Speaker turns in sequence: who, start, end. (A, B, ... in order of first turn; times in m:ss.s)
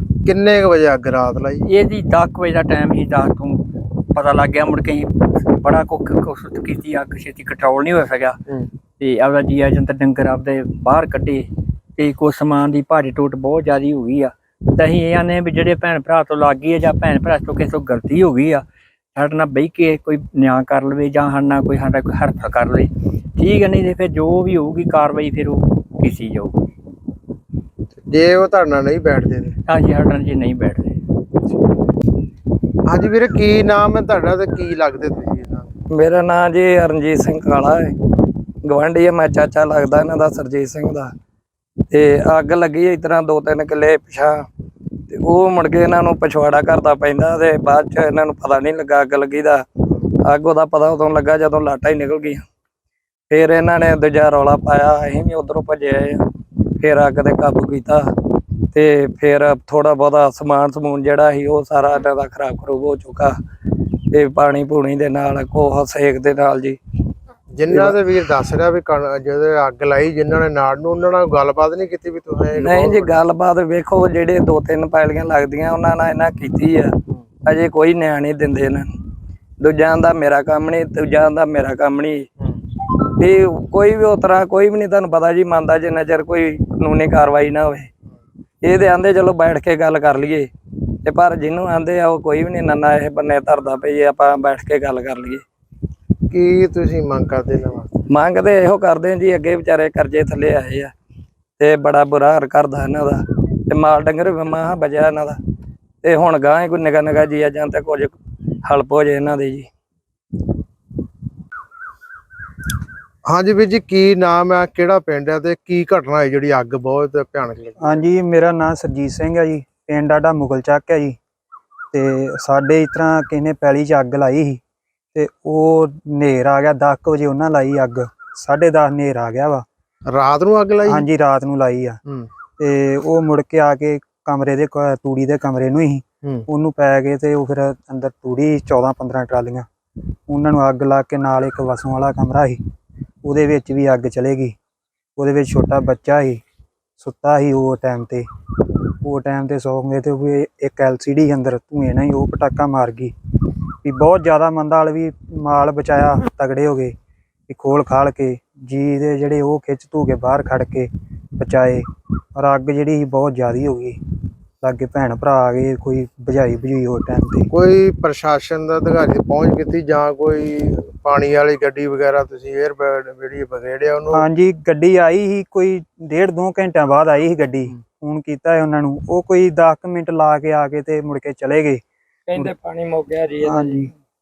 0:00.2-0:01.6 A
0:01.6-0:08.4 B
0:09.0-0:18.6 B
0:19.2-0:26.5 B
0:28.0-0:29.6 A
0:29.7-0:31.0 B
0:32.9-0:35.7 A
0:35.9-0:37.9 C
0:38.6-0:41.1 C
0:41.9-0:44.4 C
0:45.1-0:49.6 C
0:50.2-0:52.4 C
0:53.3-0:56.2 C
0:56.8-0:58.1 C
0:58.7-1:03.4 C
1:04.1-1:06.8 C
1:07.5-1:13.2 A
1:07.7-1:08.0 C
1:12.5-1:16.9 C
1:17.5-1:18.9 C
1:19.6-1:22.3 C
1:23.2-1:27.9 C
1:28.6-1:30.5 C
1:31.0-1:35.4 C
1:36.3-1:37.9 A
1:38.1-1:40.9 C
1:41.6-1:45.4 C
1:46.0-1:48.1 C
1:48.6-1:49.7 C
1:53.2-1:58.0 A
1:57.8-2:01.2 D
2:01.9-2:04.6 D
2:05.2-2:09.6 D
2:10.1-2:11.1 A
2:10.8-2:12.0 D
2:12.6-2:19.7 D
2:20.3-2:22.6 D
2:23.2-2:24.5 D
2:25.2-2:26.4 D
2:27.0-2:28.2 D
2:29.0-2:33.1 D
2:33.8-2:36.9 D
2:37.5-2:41.8 D
2:42.4-2:44.0 D
2:44.6-2:47.5 D
2:47.5-2:54.2 A
2:54.1-3:01.8 D
3:02.3-3:03.9 C
3:03.4-3:03.9 D